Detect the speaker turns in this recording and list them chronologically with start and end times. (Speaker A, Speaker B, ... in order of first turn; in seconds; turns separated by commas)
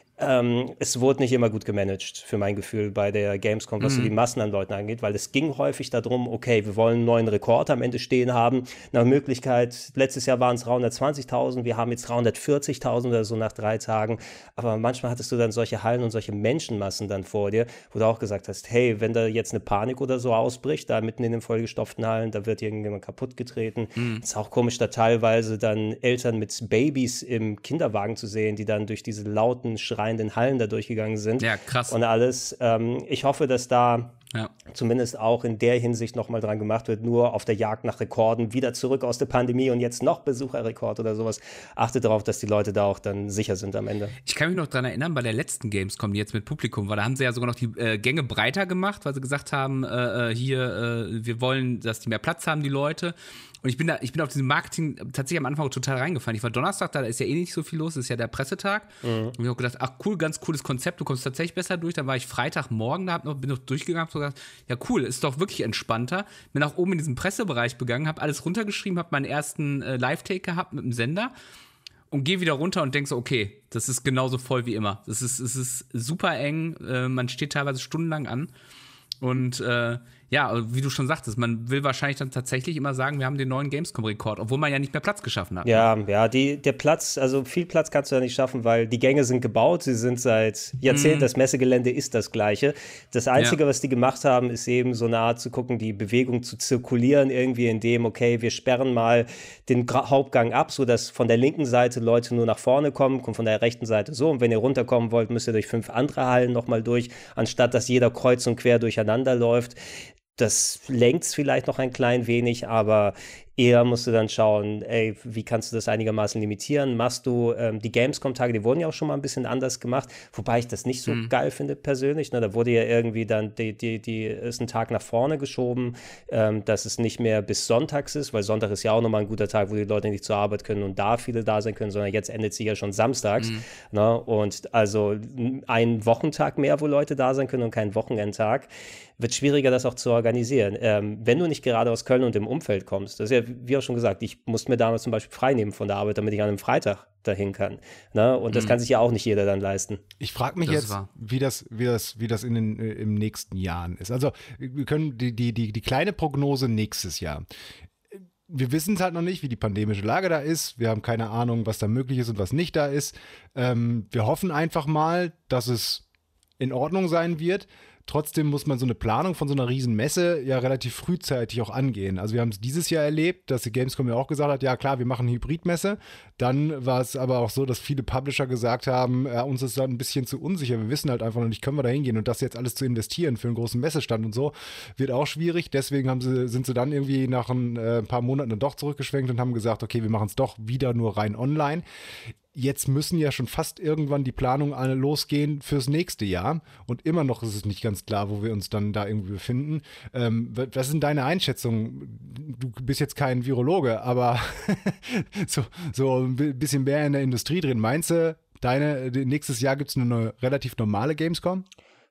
Speaker A: 0.2-44.2, Speaker B: 3.8-4.1, Speaker B: 24.0-24.2, Speaker B: 31.4-32.0, Speaker B: 44.2-71.3, Speaker A: 59.0-59.4, Speaker B: 72.1-78.5, Speaker B: 79.2-85.8, Speaker A: 85.7-109.8, Speaker B: 90.9-91.3, Speaker A: 110.4-150.0, Speaker B: 133.4-133.7, Speaker C: 150.2-157.4, Speaker B: 150.7-151.1, Speaker C: 158.5-166.1, Speaker C: 166.6-191.8, Speaker C: 192.5-211.7